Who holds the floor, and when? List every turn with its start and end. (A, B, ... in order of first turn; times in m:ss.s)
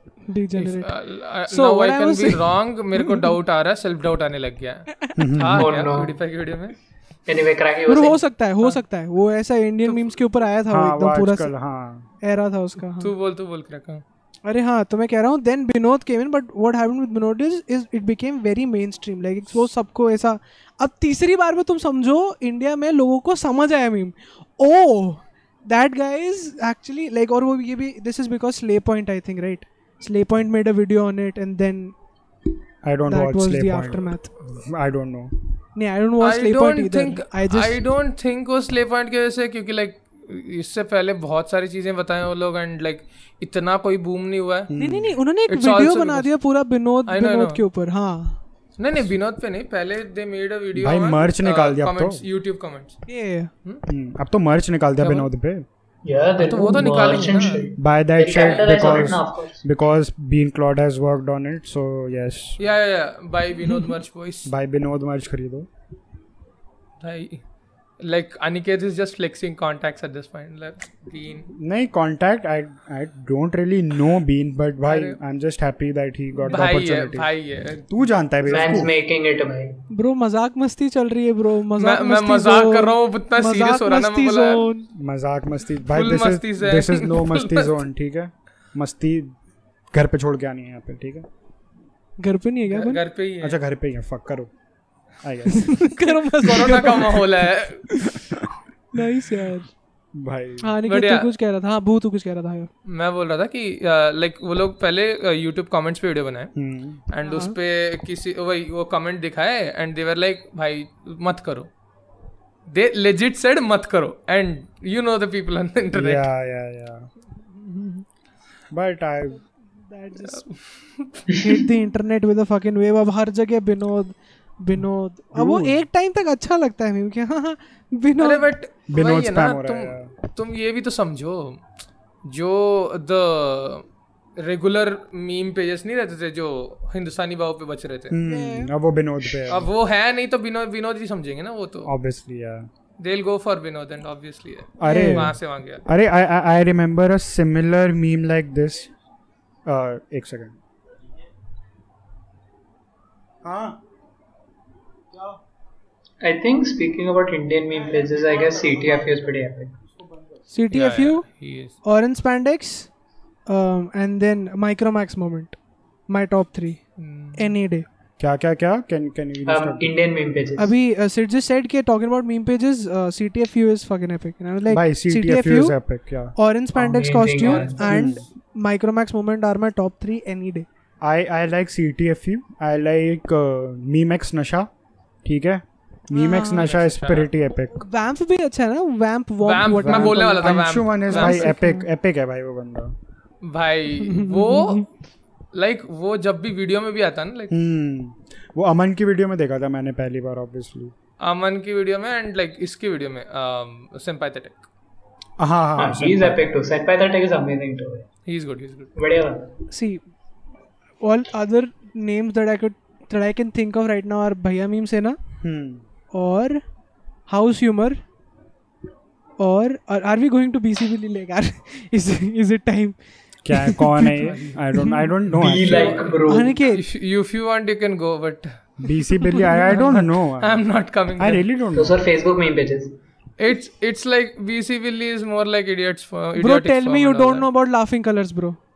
0:00.3-0:03.3 A
0:00.6-0:06.8 B
0:05.2-0:05.7 C
0:05.5-0:06.1 D
0:07.2-0:08.2 D
0:07.9-0:11.5 A
0:09.8-0:10.1 B
0:10.7-0:12.1 C
0:12.2-0:13.1 A
0:13.0-0:14.0 B
0:14.4-0:31.9 A
0:32.8-0:35.3 C
0:33.1-0:34.3 A
0:35.8-0:37.8 A
0:36.2-0:44.7 B
0:44.7-0:45.2 C
0:44.8-0:48.4 A
0:45.5-0:46.3 B
0:47.1-0:47.6 B
0:48.8-0:53.0 B
0:50.7-0:52.2 C
0:53.1-0:53.5 A
0:53.9-0:55.6 C
0:55.0-0:55.3 B
0:56.0-0:59.6 D
0:56.4-0:57.7 B
0:57.8-1:02.6 C
0:58.3-0:59.2 B
1:02.6-1:04.5 B
1:04.4-1:05.7 C
1:07.0-1:07.4 B
1:08.0-1:11.5 B
1:11.5-1:17.3 C
1:14.8-1:15.2 B
1:16.4-1:17.8 B
1:17.8-1:18.9 C
1:18.4-1:19.8 D
1:19.9-1:24.9 A
1:21.8-1:24.7 B
1:24.9-1:29.3 C
1:25.9-1:27.8 B
1:29.9-1:31.3 C
1:32.2-1:33.0 A
1:32.7-1:33.6 B
1:33.4-1:34.5 C
1:35.2-1:35.9 C
1:35.5-1:37.3 A
1:36.4-1:37.9 B
1:37.9-1:38.2 A
1:38.9-1:39.7 A
1:40.1-1:40.7 C
1:40.6-1:42.7 A
1:40.8-1:41.3 B
1:42.8-1:46.6 B
1:46.6-1:47.0 C
1:47.1-1:51.7 B
1:47.2-1:47.5 A
1:52.7-1:56.3 B
1:55.9-1:57.1 C
1:57.6-1:58.0 A
1:58.7-1:59.4 C
1:59.4-2:00.5 A
2:00.3-2:01.2 B
2:01.3-2:08.5 A
2:05.3-2:05.8 C
2:08.2-2:11.6 B
2:08.9-2:10.1 C
2:12.2-2:13.8 B
2:14.4-2:18.2 B
2:18.1-2:19.7 C
2:18.2-2:18.7 A
2:19.5-2:21.9 B
2:21.8-2:22.7 C
2:23.0-2:25.8 B
2:24.8-2:28.9 C
2:24.8-2:25.3 A
2:29.6-2:30.5 C
2:33.4-2:33.8 C
2:36.2-2:39.8 D
2:37.8-2:39.3 C
2:40.0-2:40.2 C
2:40.5-2:41.2 A
2:40.7-2:41.7 B
2:41.8-2:42.9 A
2:43.5-2:45.6 A
2:46.1-2:46.8 A
2:47.0-2:47.5 B
2:47.4-2:47.8 A
2:48.2-2:50.0 C
2:49.4-2:50.7 D
2:50.6-2:55.7 A
2:54.7-2:56.3 C
2:56.4-3:00.6 A
2:56.7-2:58.0 D
2:57.4-2:57.7 B
2:57.9-2:58.2 C
3:01.0-3:04.7 C
3:05.2-3:07.8 C
3:06.1-3:06.7 A
3:06.5-3:07.3 B
3:07.7-3:11.8 A
3:09.4-3:11.5 B
3:09.8-3:12.9 C
3:13.4-3:14.8 B
3:14.0-3:14.8 A
3:15.5-3:17.5 B
3:17.5-3:20.9 C
3:21.2-3:24.6 B
3:25.4-3:26.4 C
3:25.8-3:28.1 D
3:28.2-3:28.9 B
3:29.0-3:29.5 D
3:29.7-3:30.0 A
3:31.0-3:35.2 A
3:35.4-3:35.8 C
3:36.1-3:36.6 A
3:37.3-3:38.0 A
3:39.4-3:43.0 A
3:43.4-3:46.0 C
3:43.5-3:44.1 A
3:44.1-3:44.6 B
3:44.7-3:45.0 A
3:45.3-3:48.7 B
3:45.4-3:46.5 D
3:46.3-3:46.8 A
3:48.8-3:50.6 C
3:49.4-3:51.4 B
3:51.2-3:52.0 C
3:51.7-3:53.0 D
3:53.4-3:57.5 B
3:56.4-3:58.6 A